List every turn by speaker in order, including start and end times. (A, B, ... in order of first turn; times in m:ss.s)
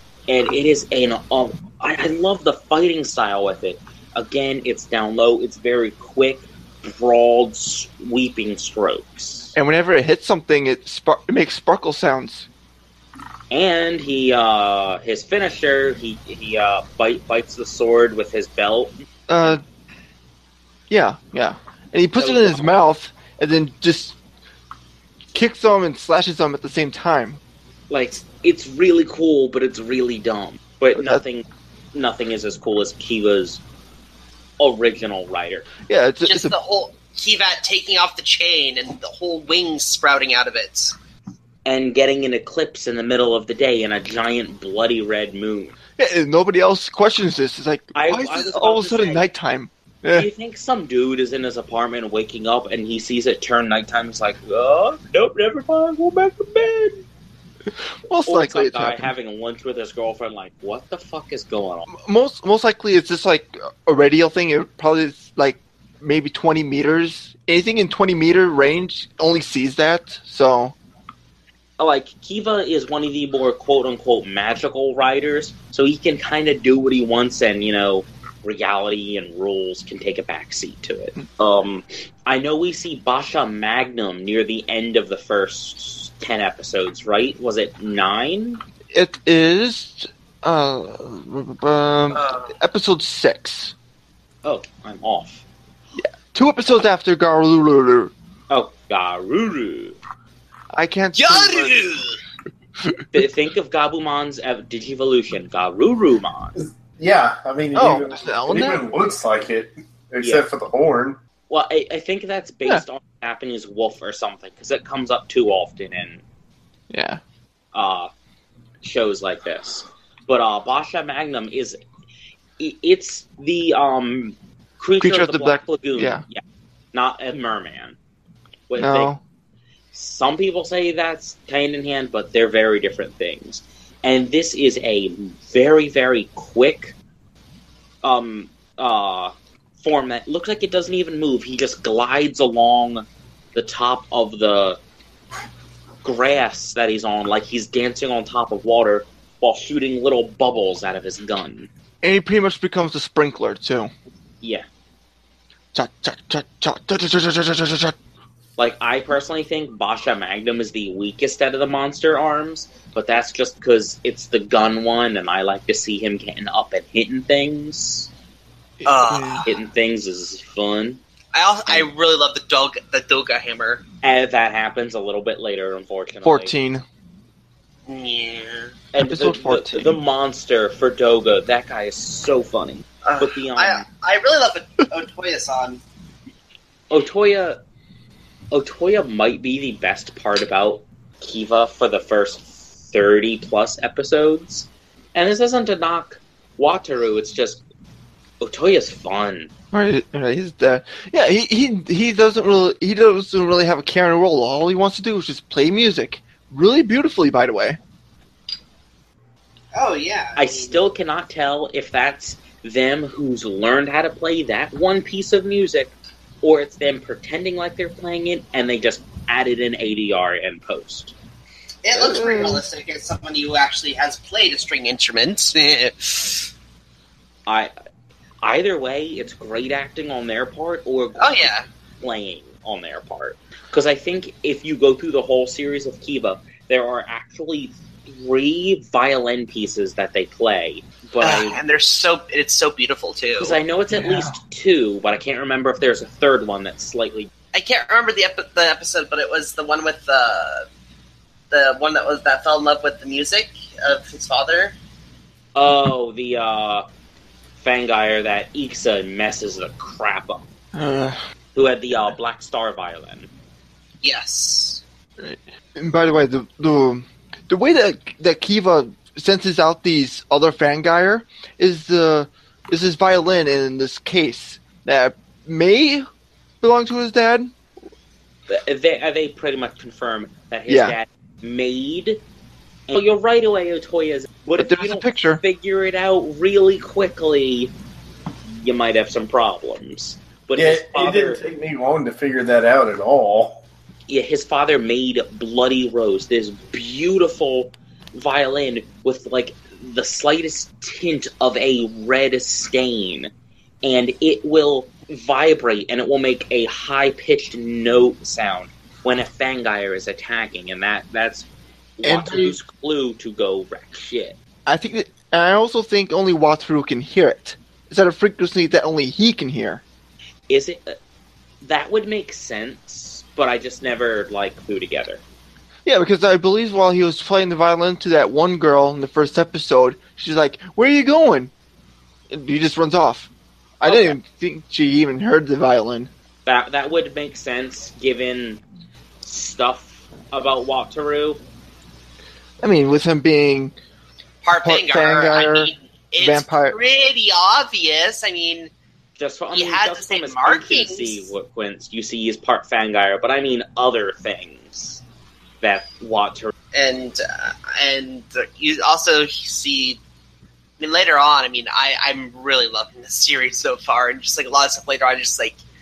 0:00.3-0:09.5 A
0:09.5-0:12.5 B
0:13.5-0:18.9 A
0:19.3-0:19.6 B
0:20.9-0:24.2 B
0:22.2-0:22.7 A
0:25.3-0:27.4 B
0:27.9-0:33.6 A
0:31.0-0:31.2 B
0:34.6-0:35.7 A
0:35.8-0:36.5 B
0:36.2-0:41.0 C
0:41.6-0:45.8 A
0:46.0-0:50.3 B
0:47.9-0:49.2 A
0:50.1-0:57.0 A
0:58.1-0:59.1 B
0:58.2-1:01.9 A
1:01.9-1:10.7 B
1:11.8-1:28.6 A
1:28.9-1:33.7 B
1:32.1-1:32.5 C
1:34.4-1:35.4 A
1:36.0-1:38.1 B
1:38.5-1:40.0 A
1:40.7-1:41.8 B
1:41.1-1:42.2 C
1:43.1-1:46.6 A
1:46.6-1:51.2 D
1:47.7-1:48.9 B
1:50.2-1:50.4 A
1:51.5-1:56.2 A
1:56.9-1:57.2 B
1:57.7-1:58.1 A
1:58.8-2:01.8 A
2:02.6-2:06.4 A
2:05.0-2:06.2 B
2:06.9-2:08.0 A
2:08.7-2:09.1 A
2:08.8-2:09.2 B
2:09.9-2:17.0 A
2:18.0-2:24.8 A
2:26.0-2:31.7 A
2:32.0-2:33.9 B
2:35.7-2:38.0 B
2:38.6-2:48.1 A
2:48.8-2:49.5 B
2:48.8-2:49.5 C
2:49.4-2:51.0 A
2:51.3-2:53.8 C
2:54.0-2:56.5 A
2:56.2-2:56.8 B
2:57.9-2:58.7 C
2:58.9-3:03.8 A
2:59.0-3:00.0 B
3:03.0-3:05.8 C
3:06.9-3:07.6 A
3:08.5-3:17.6 A
3:18.4-3:19.5 A
3:19.7-3:27.8 B
3:29.7-3:30.8 C
3:30.4-3:41.1 A
3:41.8-3:46.5 C
3:41.9-3:42.6 B
3:47.5-3:47.7 A
3:48.4-4:01.6 A
3:51.2-3:51.6 C
4:01.2-4:03.6 C
4:03.4-4:07.3 A
4:03.9-4:04.4 B
4:07.5-4:10.6 C
4:11.5-4:14.7 C
4:15.5-4:16.8 A
4:17.6-4:20.4 A
4:20.7-4:21.2 B
4:21.5-4:23.3 A
4:24.0-4:24.8 C
4:25.2-4:36.0 B
4:36.6-4:37.5 B
4:38.5-4:42.2 A
4:40.7-4:41.0 B
4:42.9-4:47.7 A
4:44.6-4:45.4 B
4:48.6-4:51.4 A
4:50.6-4:53.6 D
4:54.1-5:03.3 A
5:03.8-5:14.4 A
5:12.0-5:12.6 B
5:14.6-5:19.8 B
5:20.5-5:20.9 A
5:21.6-5:25.2 A
5:25.8-5:31.5 B
5:32.3-5:33.3 B
5:33.8-5:34.2 A
5:33.8-5:36.1 B
5:36.4-5:38.6 A
5:39.2-5:41.4 A
5:42.6-5:43.7 B
5:44.4-5:48.7 C
5:44.6-5:46.8 B
5:49.2-5:55.0 A
5:49.5-5:51.3 C
5:55.6-5:56.5 A
5:56.7-6:00.0 C
6:00.8-6:05.6 C